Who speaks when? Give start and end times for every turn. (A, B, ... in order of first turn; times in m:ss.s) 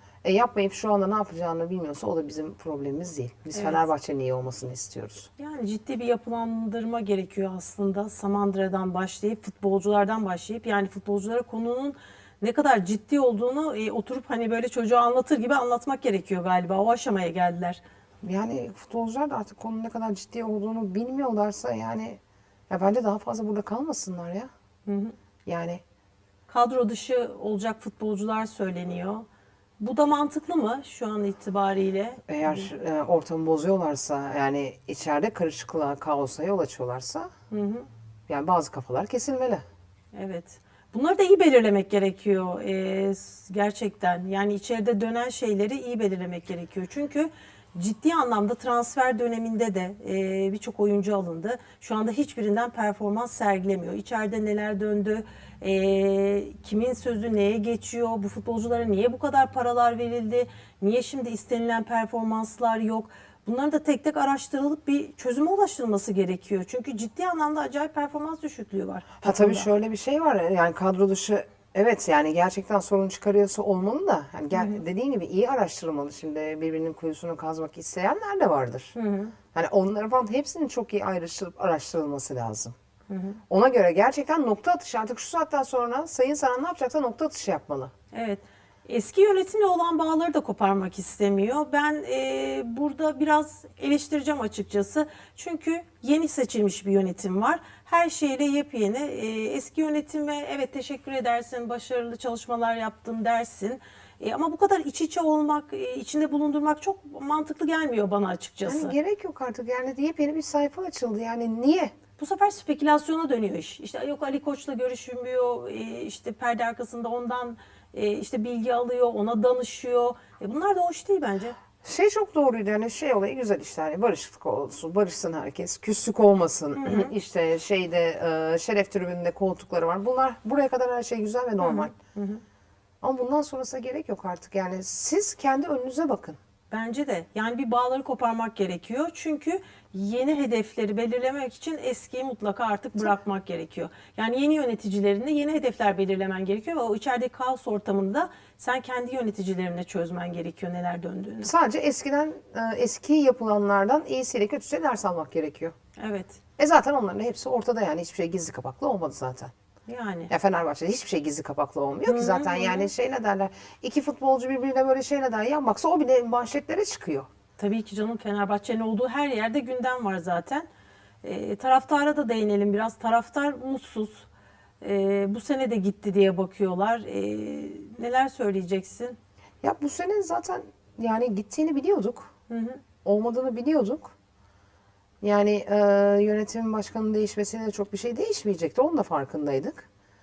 0:00.2-0:05.3 A
0:03.5-0:03.9 B
0:05.4-0:17.8 B
0:18.2-0:22.2 A
0:22.7-0:24.5 A
0:24.9-0:25.2 B
0:25.5-0:25.8 A
0:26.5-0:29.2 B
0:29.8-0:32.7 B
0:32.3-0:37.3 A
0:37.5-0:37.9 B
0:38.3-0:39.6 A
0:40.1-1:09.7 B
1:09.2-1:18.9 A
1:14.5-1:14.8 B
1:18.9-1:19.4 B
1:19.5-1:22.7 A
1:23.1-1:23.4 B
1:23.5-1:27.9 A
1:28.1-1:49.0 B
1:48.6-1:51.9 A
1:52.2-2:01.6 B
2:01.8-2:11.9 A
2:06.8-2:07.1 B
2:11.6-2:12.4 B
2:13.0-2:16.4 A
2:16.7-2:31.5 B
2:31.4-2:35.7 A
2:36.0-2:36.4 B
2:36.6-2:39.5 A
2:39.9-2:40.3 B
2:40.3-2:47.3 A
2:42.1-2:42.9 B
2:47.6-2:50.7 B
2:51.2-2:54.3 B
2:54.8-2:59.2 B
2:59.6-3:02.3 A
3:02.5-3:02.8 B
3:03.0-3:04.1 A
3:05.2-3:09.9 A